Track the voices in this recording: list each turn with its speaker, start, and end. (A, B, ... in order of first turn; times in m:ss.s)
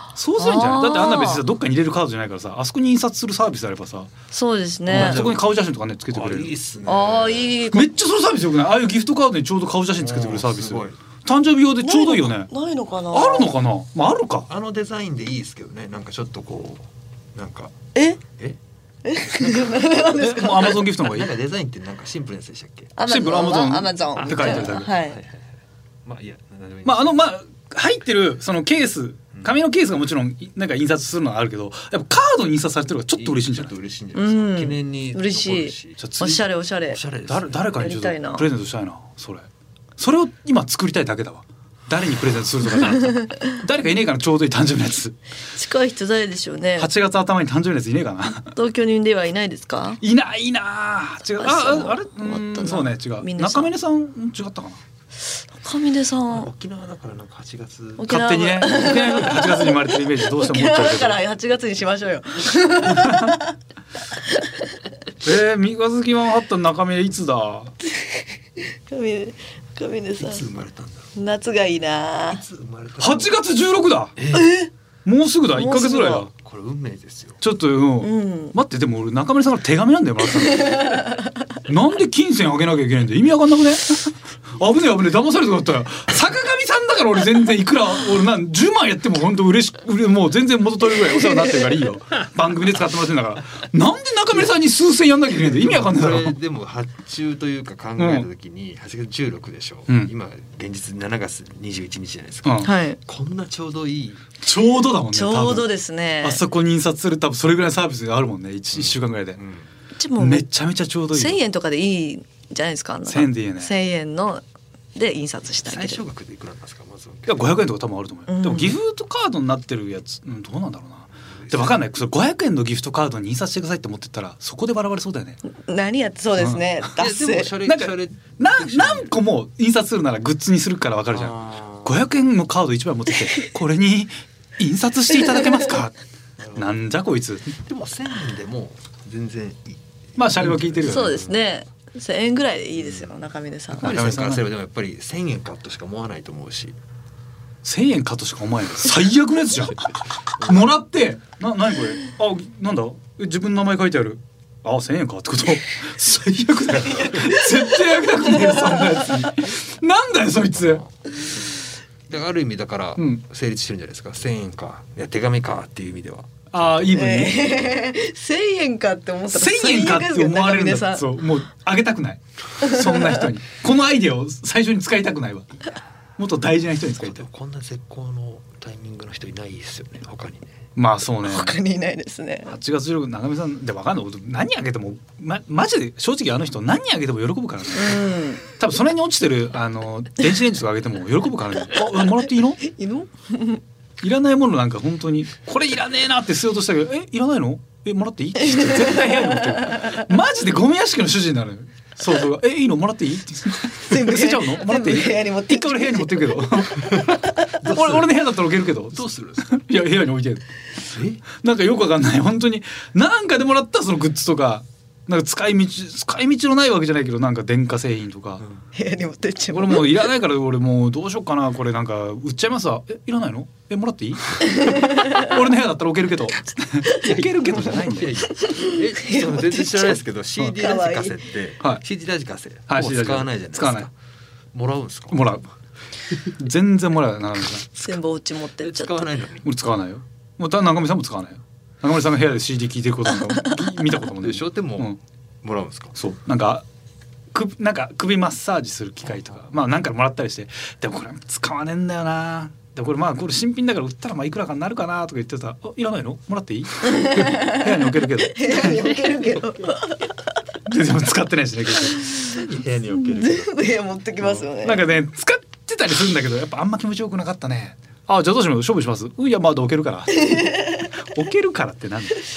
0:00.2-0:04.1 A
0:00.4-0:01.4 B
0:04.3-0:05.3 B
0:04.9-0:05.5 C
0:04.9-0:06.5 A
0:06.1-0:07.6 C
0:06.9-0:07.9 B
0:07.7-0:12.5 A
0:10.0-0:11.0 C
0:11.8-0:13.5 B
0:13.1-0:14.5 A
0:14.5-0:17.7 C
0:18.0-0:18.2 B
0:19.0-0:20.8 B
0:19.2-0:19.9 C
0:20.1-0:21.3 A
0:21.0-0:22.9 C
0:23.0-0:25.2 B
0:23.1-0:24.9 A
0:24.2-0:25.4 C
0:26.0-0:27.3 C
0:26.8-0:33.7 A
0:33.2-0:36.0 C
0:34.2-0:37.0 B
0:36.0-0:36.4 A
0:36.9-0:37.7 C
0:37.3-0:45.2 A
0:37.8-0:38.4 B
0:43.1-0:43.5 B
0:45.6-0:46.9 B
0:46.8-0:48.6 A
0:48.6-0:50.0 B
0:50.0-0:54.8 A
0:51.4-0:53.7 B
0:55.6-0:56.5 B
0:56.3-0:58.1 C
0:58.0-1:03.6 B
0:58.1-1:01.2 A
1:02.9-1:03.4 A
1:04.3-1:04.6 B
1:05.2-1:07.7 A
1:08.0-1:10.4 B
1:10.2-1:11.2 C
1:11.2-1:12.4 B
1:12.3-1:13.4 C
1:13.0-1:14.2 A
1:14.2-1:14.6 C
1:14.3-1:14.7 B
1:15.0-1:16.3 A
1:15.5-1:16.3 B
1:16.3-1:17.4 C
1:17.4-1:36.4 A
1:18.0-1:18.5 B
1:20.6-1:21.2 B
1:35.4-1:44.3 C
1:38.0-1:38.3 A
1:42.4-1:42.7 A
1:42.6-1:43.0 B
1:44.4-1:45.7 A
1:45.1-1:46.4 B
1:46.2-1:49.4 A
1:48.7-1:49.7 C
1:50.0-1:50.5 B
1:50.2-1:51.4 A
1:51.1-1:54.4 B
1:53.1-1:53.7 A
1:55.0-1:56.0 B
1:55.6-1:57.6 C
1:57.3-2:05.4 A
1:58.3-1:58.8 B
2:01.3-2:01.8 C
2:05.5-2:07.6 B
2:06.4-2:06.6 A
2:07.0-2:09.1 C
2:07.6-2:16.0 A
2:11.1-2:11.9 C
2:16.4-2:16.8 C
2:16.6-2:17.5 A
2:17.6-2:21.4 C
2:20.2-2:21.2 A
2:20.8-2:23.9 B
2:22.8-2:23.1 C
2:23.8-2:26.8 C
2:23.8-2:24.4 A
2:27.6-2:40.8 A
2:30.4-2:30.7 C
2:36.9-2:39.3 B
2:40.5-2:40.9 C
2:42.1-2:46.9 C
2:46.5-2:47.5 A
2:46.9-2:51.1 B
2:49.3-2:55.6 A
2:52.6-2:53.2 B
2:56.2-2:57.3 A
2:57.0-3:00.6 C
3:00.8-3:01.6 A
3:01.2-3:02.6 B
3:02.5-3:12.6 A
3:07.8-3:08.4 B
3:12.6-3:13.6 B
3:14.0-3:30.4 A
3:18.4-3:20.0 B
3:23.8-3:27.5 B
3:27.6-3:28.1 C
3:28.9-3:29.5 C
3:30.8-3:31.2 C
3:31.4-3:38.4 A
3:38.8-3:40.1 B
3:39.5-3:48.2 A
3:44.4-3:45.4 B
3:47.0-3:53.9 C
3:48.3-3:51.2 B
3:52.7-3:53.9 A
3:54.5-3:55.2 C
3:55.1-3:55.5 A
3:56.2-3:57.7 A
3:57.8-3:59.0 B
3:58.6-3:59.5 C
3:59.4-4:05.0 A
4:04.2-4:04.9 C
4:05.4-4:06.0 C
4:06.0-4:06.6 A
4:07.3-4:18.9 A
4:16.9-4:17.7 B
4:18.2-4:20.0 B
4:20.7-4:22.4 A
4:22.2-4:23.7 C
4:23.1-4:24.8 B
4:24.2-4:32.2 A
4:30.2-4:30.9 B